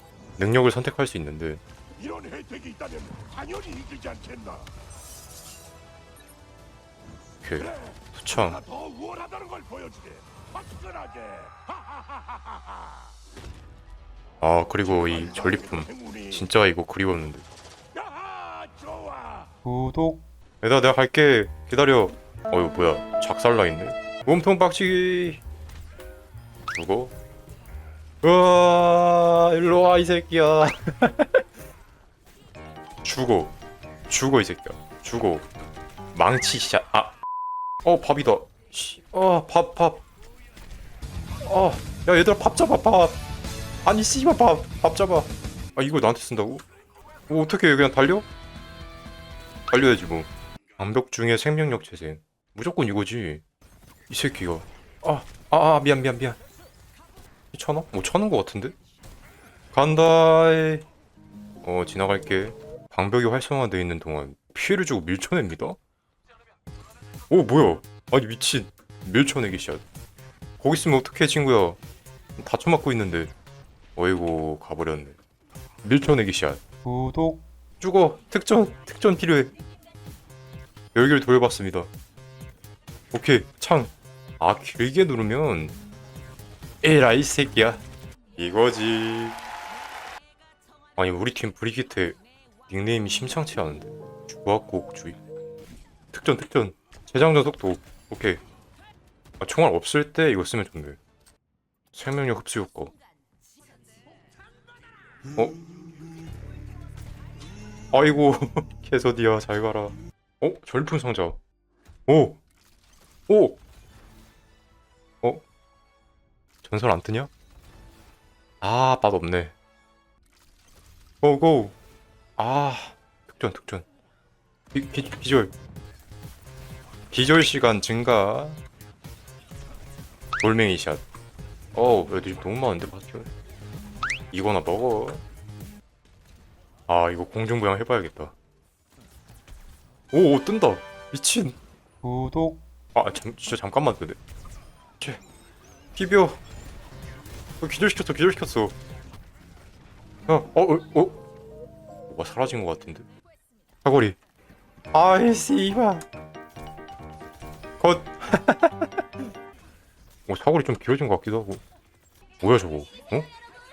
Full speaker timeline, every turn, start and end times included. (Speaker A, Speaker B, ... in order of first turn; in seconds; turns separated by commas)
Speaker A: 0.4-1.6, Speaker B: 2.0-4.6, Speaker A: 7.4-8.6, Speaker B: 8.6-11.5, Speaker A: 14.4-17.4, Speaker B: 15.9-16.3, Speaker B: 18.0-19.3, Speaker A: 20.6-25.4, Speaker A: 26.7-27.1, Speaker A: 28.2-31.4, Speaker A: 33.0-33.5, Speaker A: 34.1-35.5, Speaker A: 36.1-37.1, Speaker A: 37.8-40.0, Speaker A: 41.4-43.1, Speaker A: 43.8-46.6, Speaker A: 47.3-48.3, Speaker A: 49.7-53.4, Speaker A: 54.1-56.4, Speaker A: 57.5-58.7, Speaker A: 59.7-60.9, Speaker A: 61.6-65.8, Speaker A: 67.3-69.8, Speaker A: 70.6-71.8, Speaker A: 72.4-73.3, Speaker A: 74.0-75.2, Speaker A: 75.8-76.6, Speaker A: 77.8-79.5, Speaker A: 80.9-81.9, Speaker A: 83.1-85.8, Speaker A: 86.8-87.8, Speaker A: 88.4-89.4, Speaker A: 91.0-95.2, Speaker A: 96.1-98.4, Speaker A: 99.4-101.0, Speaker A: 101.9-102.9, Speaker A: 107.9-111.4, Speaker A: 112.1-112.4, Speaker A: 113.3-113.6, Speaker A: 116.6-117.3, Speaker A: 118.6-119.5, Speaker A: 121.2-121.7, Speaker A: 122.4-123.8, Speaker A: 124.7-125.5, Speaker A: 127.1-128.6, Speaker A: 130.4-131.0, Speaker A: 131.7-133.3, Speaker A: 134.3-135.2, Speaker A: 136.9-138.3, Speaker A: 140.1-141.6, Speaker A: 142.9-144.2, Speaker A: 145.9-146.4, Speaker A: 147.6-148.7, Speaker A: 150.3-151.2, Speaker A: 152.1-153.1, Speaker A: 153.8-154.2, Speaker A: 154.9-156.0, Speaker A: 157.8-158.9, Speaker A: 160.3-161.6, Speaker A: 162.4-163.3